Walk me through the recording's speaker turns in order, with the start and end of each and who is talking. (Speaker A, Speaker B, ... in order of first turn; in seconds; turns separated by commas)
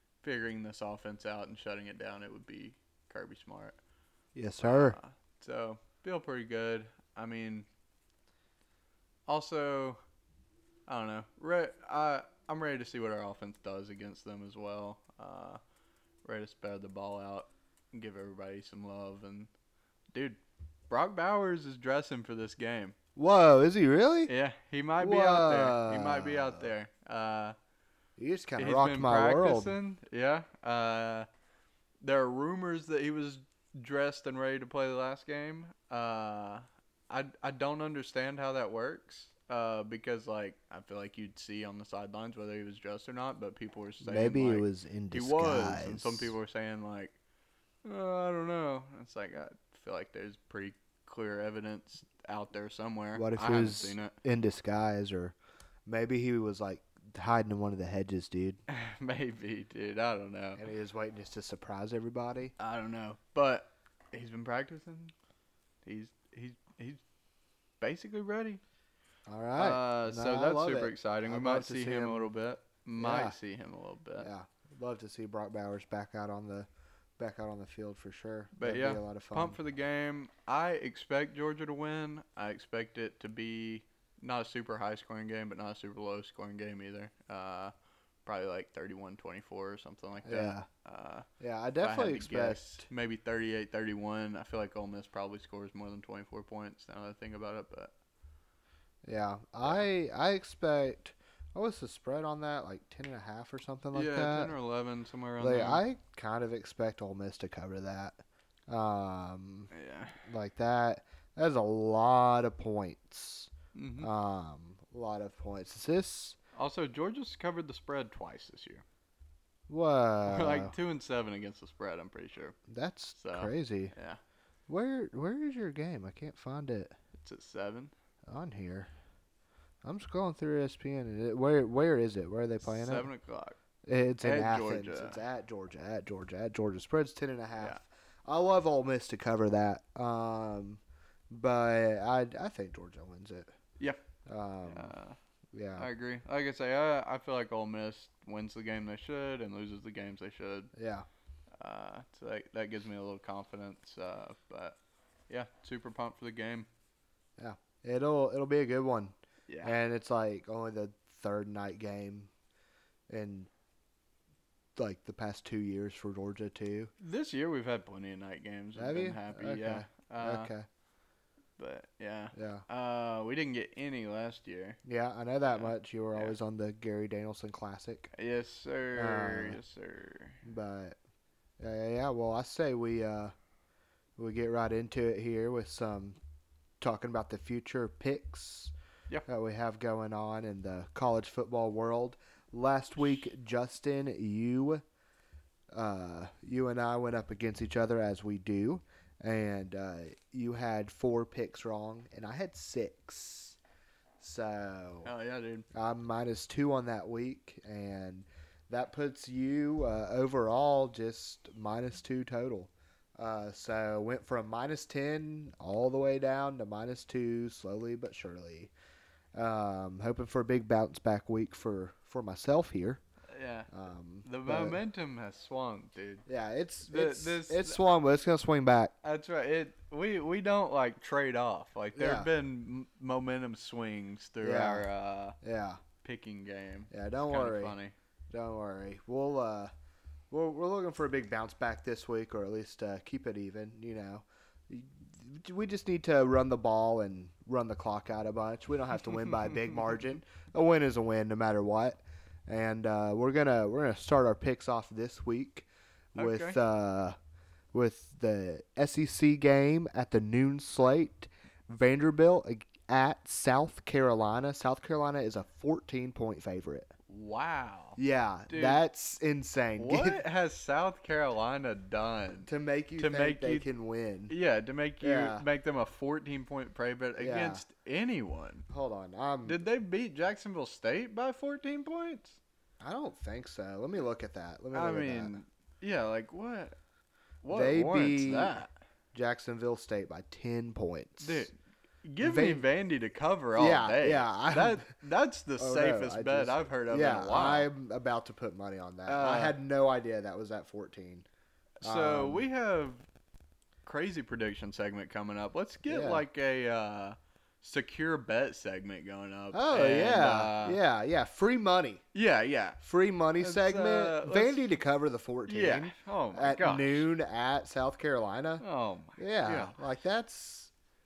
Speaker A: 0.2-3.8, Speaker B: 4.3-5.0, Speaker A: 4.6-7.7, Speaker A: 9.2-10.0, Speaker A: 10.9-15.6, Speaker A: 16.2-19.5, Speaker A: 20.1-22.9, Speaker B: 23.1-24.3, Speaker A: 24.3-27.6, Speaker B: 25.0-26.7, Speaker B: 28.2-29.8, Speaker A: 28.6-31.3, Speaker A: 32.0-47.2, Speaker B: 44.0-46.3, Speaker A: 47.8-54.1, Speaker B: 53.1-55.3, Speaker B: 55.9-58.6, Speaker A: 58.7-60.6, Speaker B: 60.6-62.5, Speaker A: 62.6-65.1, Speaker A: 65.8-67.0, Speaker A: 67.8-68.6, Speaker B: 69.3-72.3, Speaker A: 69.6-74.3, Speaker B: 73.0-73.3, Speaker B: 74.2-76.7, Speaker B: 77.2-79.6, Speaker A: 78.5-87.7, Speaker A: 88.2-91.3, Speaker B: 90.2-90.7, Speaker B: 91.4-92.9, Speaker A: 91.8-97.9, Speaker B: 99.0-104.5, Speaker A: 103.9-105.8, Speaker B: 105.4-109.7, Speaker A: 109.7-110.2, Speaker B: 110.2-116.4, Speaker A: 113.7-114.1, Speaker A: 116.5-118.8, Speaker B: 119.7-120.7, Speaker A: 120.2-122.5, Speaker B: 122.7-123.9, Speaker A: 123.2-124.2, Speaker B: 124.7-126.9, Speaker A: 127.1-127.9, Speaker B: 128.3-128.9, Speaker B: 129.8-133.1, Speaker A: 132.6-133.6, Speaker B: 133.8-143.5, Speaker A: 134.2-135.2, Speaker B: 144.2-144.9, Speaker A: 144.7-145.2, Speaker B: 145.5-145.9, Speaker A: 145.8-150.7, Speaker B: 150.7-151.1, Speaker A: 151.6-154.8, Speaker A: 155.3-156.7, Speaker B: 157.4-162.3, Speaker A: 159.5-159.8, Speaker B: 163.1-163.5, Speaker B: 164.8-166.9, Speaker A: 167.0-170.5, Speaker B: 168.8-170.7, Speaker A: 171.6-174.8, Speaker B: 172.3-172.6, Speaker B: 174.8-178.1, Speaker A: 175.6-176.3, Speaker A: 178.1-180.4, Speaker B: 178.9-179.6, Speaker B: 180.4-181.0, Speaker B: 181.6-183.3, Speaker B: 184.2-186.2, Speaker B: 186.8-188.7, Speaker B: 189.2-194.8, Speaker A: 193.0-193.3, Speaker B: 195.7-203.6, Speaker B: 204.2-205.1, Speaker A: 205.0-205.7, Speaker B: 205.7-218.7, Speaker B: 219.3-223.0, Speaker A: 223.3-223.7, Speaker B: 223.7-224.8, Speaker A: 224.2-226.2, Speaker B: 226.2-228.9, Speaker A: 226.9-227.8, Speaker A: 229.0-235.4, Speaker B: 231.9-232.3, Speaker B: 234.4-234.9, Speaker B: 235.4-235.8, Speaker A: 236.0-237.9, Speaker B: 236.9-237.7, Speaker B: 238.3-239.7, Speaker B: 240.3-257.1, Speaker A: 256.1-256.6, Speaker B: 257.7-266.9, Speaker A: 267.1-268.0, Speaker B: 268.0-270.2, Speaker A: 268.5-268.8, Speaker A: 269.8-273.7, Speaker B: 272.4-274.4, Speaker A: 274.3-278.6, Speaker B: 275.0-275.4, Speaker B: 277.2-277.6, Speaker B: 278.7-279.6, Speaker A: 279.4-282.4, Speaker B: 282.8-285.4, Speaker A: 284.7-286.8, Speaker A: 287.4-288.7, Speaker B: 287.5-291.5, Speaker A: 291.2-297.7, Speaker B: 292.2-292.6, Speaker B: 293.6-294.9, Speaker B: 295.6-301.2, Speaker A: 299.1-299.6, Speaker A: 301.8-303.0, Speaker B: 301.8-302.4, Speaker A: 303.8-310.8, Speaker B: 305.9-306.2, Speaker B: 309.5-312.0, Speaker A: 312.1-312.8, Speaker B: 312.8-318.6, Speaker A: 313.4-314.8, Speaker A: 315.5-317.1, Speaker A: 318.6-319.7, Speaker B: 319.2-320.7